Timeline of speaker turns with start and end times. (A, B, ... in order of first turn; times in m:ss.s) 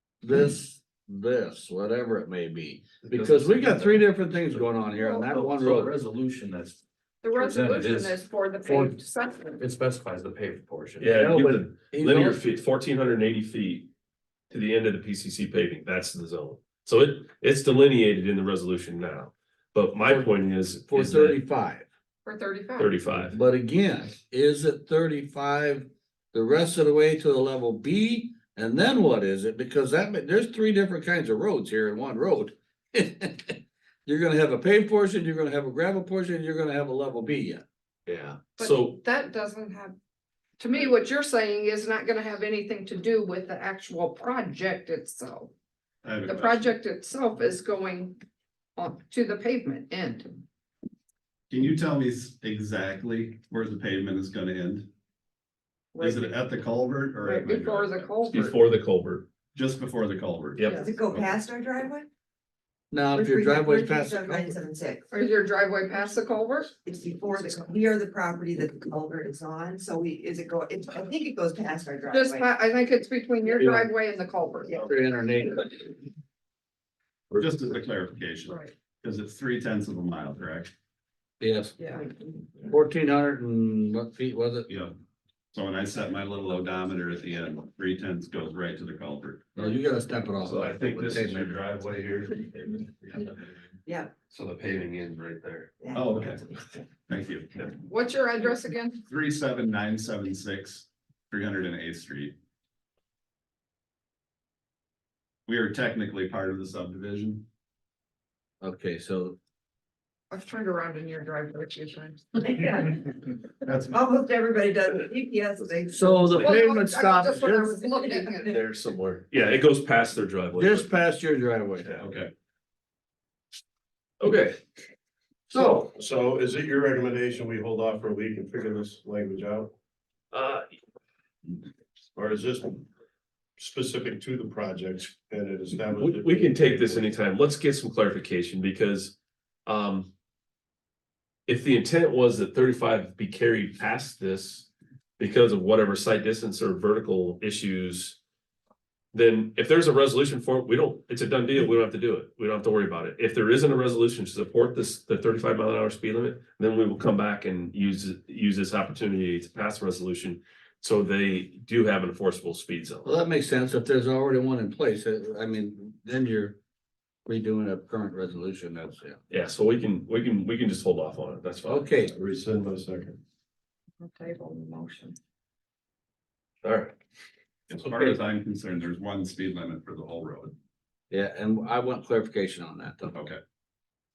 0:00.2-0:05.9 A
0:03.1-0:04.0 B
0:05.0-0:05.3 C
0:05.3-0:06.8 B
0:07.2-0:09.6 C
0:07.4-0:08.9 B
0:09.6-0:11.2 B
0:11.0-0:13.9 D
0:11.1-0:12.3 A
0:11.9-0:12.2 B
0:14.5-0:21.4 D
0:20.1-0:20.3 A
0:20.9-0:21.8 A
0:22.2-0:22.9 C
0:22.8-0:23.3 D
0:23.1-0:37.6 A
0:38.1-0:39.0 D
0:38.6-0:40.0 C
0:40.6-0:45.5 C
0:46.0-0:46.6 E
0:46.3-0:48.2 C
0:48.8-0:50.4 C
0:51.5-0:54.9 E
0:55.9-0:56.3 C
0:56.0-0:58.0 E
0:57.2-0:58.6 C
0:58.3-0:59.3 D
0:59.5-1:01.4 E
1:00.7-1:02.1 F
1:02.9-1:04.5 A
1:03.1-1:05.4 F
1:05.1-1:06.7 C
1:06.8-1:12.6 F
1:12.1-1:14.8 C
1:13.6-1:13.9 A
1:14.8-1:15.8 A
1:17.3-1:20.7 E
1:21.4-1:21.7 A
1:21.8-1:22.1 C
1:22.7-1:24.7 A
1:24.7-1:25.0 E
1:25.5-1:29.4 E
1:29.5-1:31.5 A
1:30.4-1:33.3 D
1:33.8-1:34.1 F
1:34.3-1:35.7 D
1:35.8-1:36.2 F
1:35.9-1:36.4 E
1:37.1-1:37.6 E
1:37.8-1:39.0 C
1:39.1-1:42.4 E
1:45.5-1:47.4 E
1:48.6-1:49.4 A
1:50.3-1:52.3 C
1:52.4-1:56.8 F
1:55.9-1:57.8 A
1:56.4-1:58.5 C
1:57.7-1:58.5 F
1:58.5-2:00.9 D
2:00.5-2:01.9 A
2:01.8-2:02.1 D
2:04.2-2:04.6 D
2:05.5-2:05.9 C
2:05.6-2:09.7 G
2:10.3-2:10.6 D
2:12.1-2:12.8 G
2:13.6-2:17.1 G
2:16.0-2:19.1 D
2:19.6-2:20.1 D
2:21.5-2:28.2 D
2:29.1-2:43.1 D
2:43.0-2:46.6 A
2:47.2-2:49.2 A
2:49.3-2:51.9 D
2:51.7-2:52.1 A
2:52.1-2:53.2 G
2:54.0-2:55.1 C
2:56.6-2:56.9 D
2:57.7-3:00.5 E
3:01.1-3:03.1 A
3:03.1-3:03.4 E